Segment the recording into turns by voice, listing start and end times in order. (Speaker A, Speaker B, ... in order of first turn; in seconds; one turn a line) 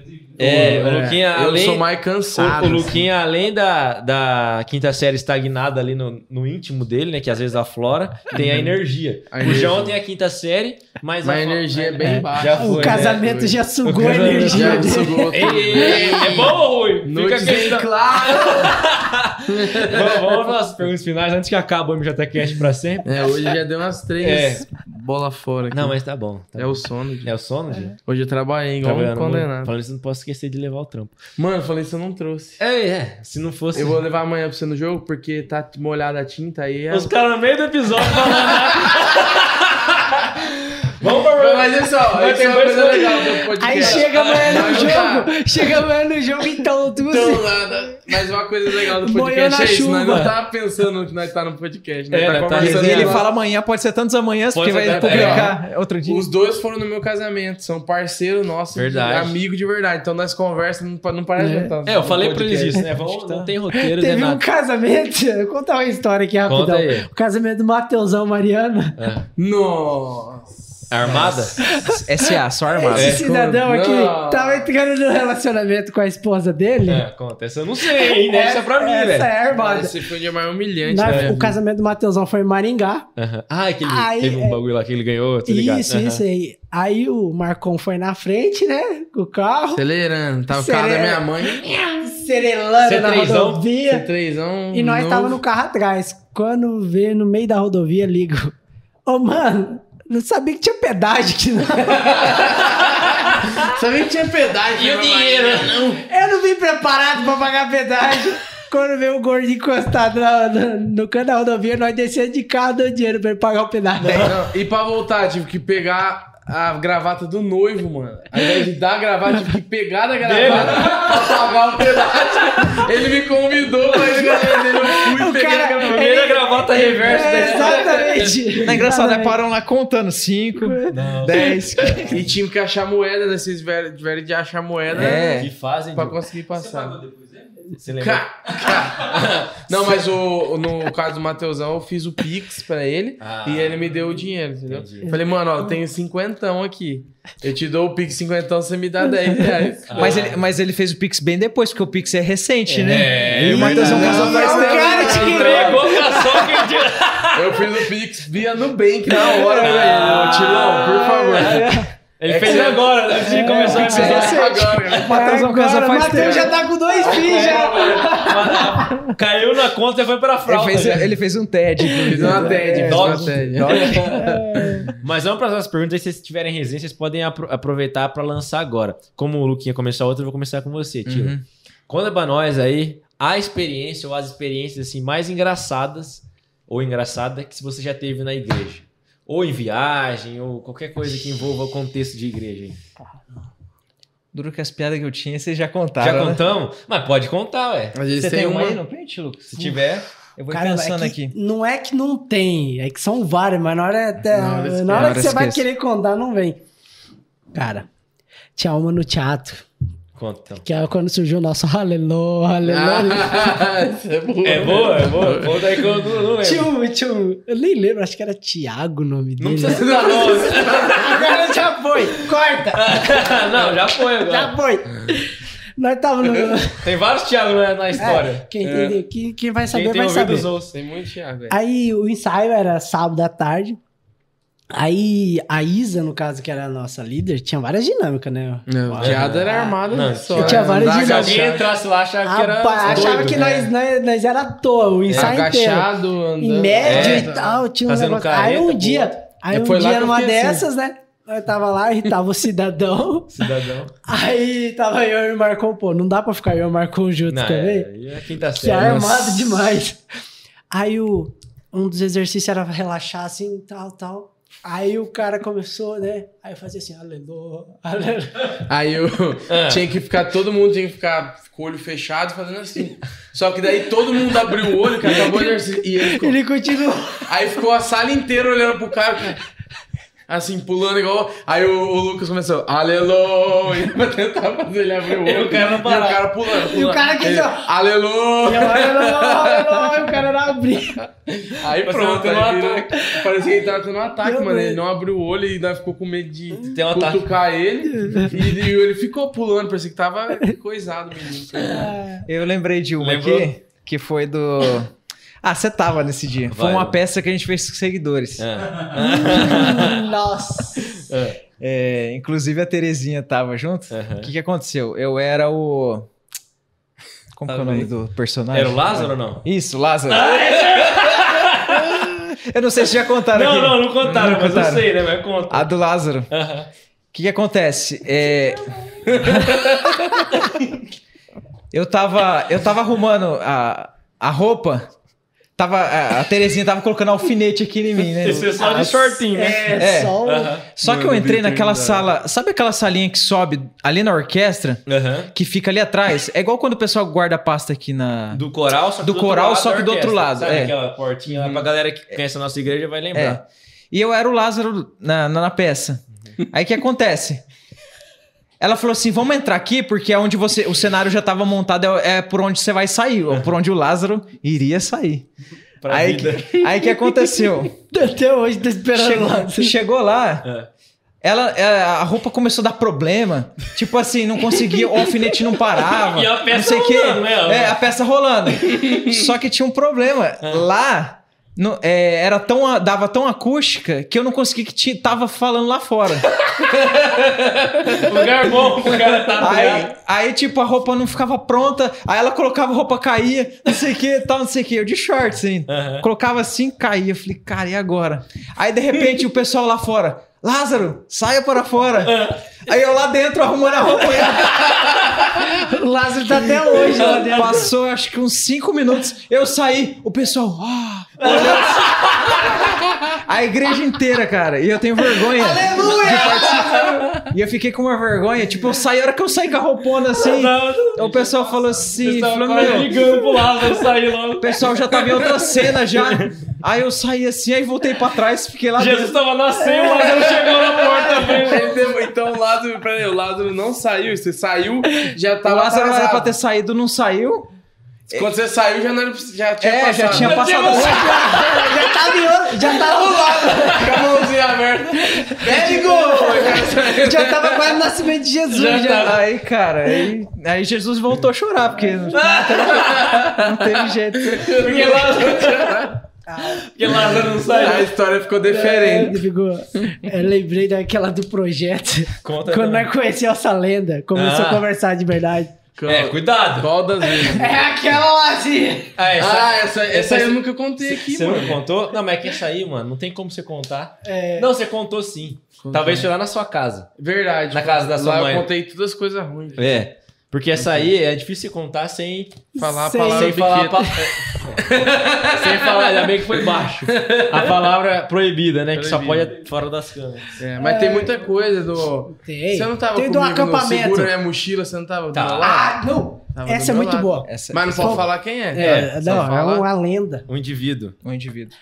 Speaker A: 0.4-23.1
Speaker B: 0.4-3.0
Speaker B: 8.3-10.0
Speaker B: 11.2-18.8
Speaker C: 12.0-16.4
Speaker B: 19.5-20.4
Speaker B: 23.1-26.0
Speaker A: 24.2-24.7
Speaker A: 25.7-28.0
Speaker B: 26.6-27.3
Speaker B: 28.1-29.7
Speaker A: 28.8-31.1
Speaker B: 31.4-32.6
Speaker A: 32.6-34.0
Speaker B: 33.8-37.1
Speaker A: 36.9-45.1
Speaker B: 38.2-39.0
Speaker B: 41.0-45.3
Speaker C: 43.6-47.6
Speaker B: 47.1-53.3
Speaker C: 48.8-50.4
Speaker A: 52.1-53.2
Speaker D: 52.6-56.3
Speaker A: 54.5-55.5
Speaker B: 54.9-62.8
Speaker A: 58.8-59.4
Speaker C: 61.4-61.8
Speaker A: 61.9-64.4
Speaker D: 62.7-63.5
Speaker C: 63.7-69.0
Speaker A: 66.5-67.1
Speaker A: 69.0-69.3
Speaker B: 69.4-71.7
Speaker A: 70.9-71.7
Speaker C: 71.7-72.2
Speaker D: 71.9-73.2
Speaker C: 72.7-77.1
Speaker A: 73.0-73.2
Speaker B: 73.0-74.7
Speaker A: 76.9-79.3
Speaker C: 77.8-80.0
Speaker B: 79.5-81.6
Speaker C: 80.9-83.1
Speaker A: 81.0-81.3
Speaker A: 83.2-86.2
Speaker C: 83.8-84.6
Speaker C: 85.5-89.8
Speaker B: 89.8-91.7
Speaker C: 90.5-94.1
Speaker A: 92.8-93.7
Speaker B: 93.9-95.4
Speaker C: 94.7-98.5
Speaker C: 99.1-102.5
Speaker B: 102.1-102.8
Speaker A: 102.5-103.6
Speaker B: 103.5-106.0
Speaker A: 104.7-106.0
Speaker C: 106.0-114.3
Speaker A: 114.0-114.4
Speaker B: 114.1-126.2
Speaker A: 120.2-121.4
Speaker A: 122.2-122.9
Speaker C: 124.9-129.4
Speaker A: 125.8-128.3
Speaker B: 126.9-128.3
Speaker D: 128.6-132.3
Speaker C: 130.5-131.6
Speaker A: 130.9-132.2
Speaker B: 132.1-137.0
Speaker D: 134.9-135.5
Speaker A: 135.4-136.2
Speaker A: 137.7-139.5
Speaker B: 137.9-150.2
Speaker A: 143.2-145.2
Speaker A: 149.9-150.4
Speaker D: 149.9-155.3
Speaker A: 152.7-157.8
Speaker B: 153.5-156.5
Speaker C: 153.5-156.5
Speaker B: 157.3-165.3
Speaker A: 159.5-165.0
Speaker D: 159.9-160.3
Speaker C: 161.4-161.9
Speaker C: 163.1-169.1
Speaker D: 163.6-166.6
Speaker B: 166.0-168.4
Speaker A: 167.0-171.1
Speaker D: 170.5-174.4
Speaker C: 171.8-173.2
Speaker B: 172.0-174.8
Speaker A: 172.7-174.0
Speaker C: 173.7-174.9
Speaker A: 175.0-181.4
Speaker D: 181.1-181.4
Speaker A: 181.9-192.8
Speaker D: 194.3-196.4
Speaker A: 196.0-198.0
Speaker B: 197.9-198.8
Speaker D: 198.2-201.3
Speaker A: 199.5-200.1
Speaker C: 200.5-206.6
Speaker B: 204.3-205.4
Speaker D: 204.9-205.6
Speaker C: 207.5-207.9
Speaker C: 208.6-209.7
Speaker A: 210.2-210.7
Speaker C: 210.6-213.6
Speaker B: 212.6-215.6
Speaker A: 214.4-216.7
Speaker C: 216.4-223.4
Speaker A: 219.4-221.2
Speaker B: 219.6-221.0
Speaker A: 222.7-224.5
Speaker C: 224.1-226.9
Speaker A: 226.8-228.5
Speaker C: 228.0-230.5
Speaker B: 228.6-229.0
Speaker A: 229.7-230.7
Speaker B: 230.7-231.6
Speaker C: 231.5-233.8
Speaker C: 234.7-239.8
Speaker B: 238.7-241.7
Speaker A: 238.9-243.7
Speaker C: 240.3-241.5
Speaker C: 242.2-253.5
Speaker B: 242.8-243.5
Speaker A: 245.1-245.4
Speaker B: 245.1-247.6
Speaker A: 246.8-249.1
Speaker B: 249.5-250.7
Speaker A: 253.3-253.9
Speaker C: 254.1-257.9
Speaker A: 257.3-259.5
Speaker C: 258.6-260.0
Speaker C: 260.7-268.6
Speaker B: 268.7-276.4
Speaker A: 269.5-269.8
Speaker C: 275.0-277.3
Speaker B: 277.3-279.4
Speaker B: 280.3-290.2
Speaker A: 285.2-286.3
Speaker C: 286.6-287.7
Speaker C: 288.4-291.0
Speaker B: 291.3-301.9
Speaker A: 291.7-293.0
Speaker C: 293.0-293.5
Speaker C: 294.2-294.8
Speaker A: 296.6-297.2
Speaker C: 298.0-298.4
Speaker C: 301.7-302.3
Speaker D: 302.2-304.9
Speaker A: 303.0-303.5
Speaker D: 305.4-308.5
Speaker A: 306.5-307.0
Speaker A: 308.4-310.1
Speaker C: 309.0-311.0
Speaker A: 310.9-311.4
Speaker D: 311.6-316.1
Speaker A: 313.9-314.3
Speaker D: 317.3-320.4
Speaker A: 318.5-319.4
Speaker A: 320.1-322.1
Speaker D: 321.4-324.9
Speaker A: 323.3-325.7
Speaker D: 325.5-326.3
Speaker A: 326.3-326.7
Speaker D: 327.1-330.5
Speaker A: 329.2-330.6
Speaker D: 331.7-334.9
Speaker D: 335.6-338.6
Speaker A: 338.2-340.7
Speaker C: 338.4-340.6
Speaker D: 339.8-348.4
Speaker B: 340.8-342.1
Speaker A: 344.9-345.3
Speaker A: 348.3-353.4
Speaker D: 349.0-350.7
Speaker D: 351.3-351.6
Speaker D: 353.1-357.4
Speaker D: 358.6-365.3
Speaker A: 365.8-366.7
Speaker D: 365.9-367.8
Speaker C: 367.9-369.8
Speaker D: 368.9-370.5
Speaker D: 371.2-386.3
Speaker A: 376.0-377.8
Speaker A: 386.4-389.9
Speaker D: 389.4-404.9
Speaker A: 395.7-396.1
Speaker A: 402.0-402.4
Speaker C: 405.6-407.7
Speaker D: 406.9-423.1
Speaker A: 411.2-412.6
Speaker C: 411.2-412.0
Speaker C: 415.3-416.9
Speaker A: 416.7-417.2
Speaker A: 420.2-425.0
Speaker D: 424.4-429.2
Speaker A: 425.9-426.4
Speaker A: 428.8-431.8
Speaker C: 429.6-430.4
Speaker B: 429.9-436.3
Speaker D: 435.4-437.5
Speaker B: 438.1-440.5
Speaker D: 439.6-441.2
Speaker A: 440.1-441.8
Speaker C: 440.7-444.2
Speaker B: 442.7-447.8
Speaker C: 445.1-449.2
Speaker A: 448.5-449.2
Speaker D: 449.0-454.4
Speaker A: 452.1-453.2
Speaker B: 452.5-453.5
Speaker B: 454.2-456.0
Speaker A: 454.5-457.9
Speaker C: 456.3-457.9
Speaker B: 457.2-459.2
Speaker C: 458.4-465.6
Speaker A: 462.2-462.9
Speaker A: 464.1-464.7
Speaker B: 465.8-467.6
Speaker A: 465.9-466.7
Speaker C: 467.0-469.0
Speaker A: 469.0-476.9
Speaker B: 469.1-471.6
Speaker C: 474.0-474.5
Speaker B: 475.6-476.1
Speaker B: 477.0-479.8
Speaker A: 477.5-478.5
Speaker A: 479.6-482.4
Speaker C: 482.5-484.1
Speaker B: 482.6-483.9
Speaker A: 483.1-484.7
Speaker B: 484.6-487.5
Speaker A: 485.3-490.4
Speaker B: 488.7-489.4
Speaker B: 490.4-495.8
Speaker C: 490.6-491.2
Speaker C: 492.1-494.1
Speaker A: 495.1-495.6
Speaker C: 495.4-500.3
Speaker B: 496.4-499.7
Speaker D: 497.2-498.1
Speaker A: 498.6-499.3
Speaker A: 500.3-501.0
Speaker D: 501.0-501.5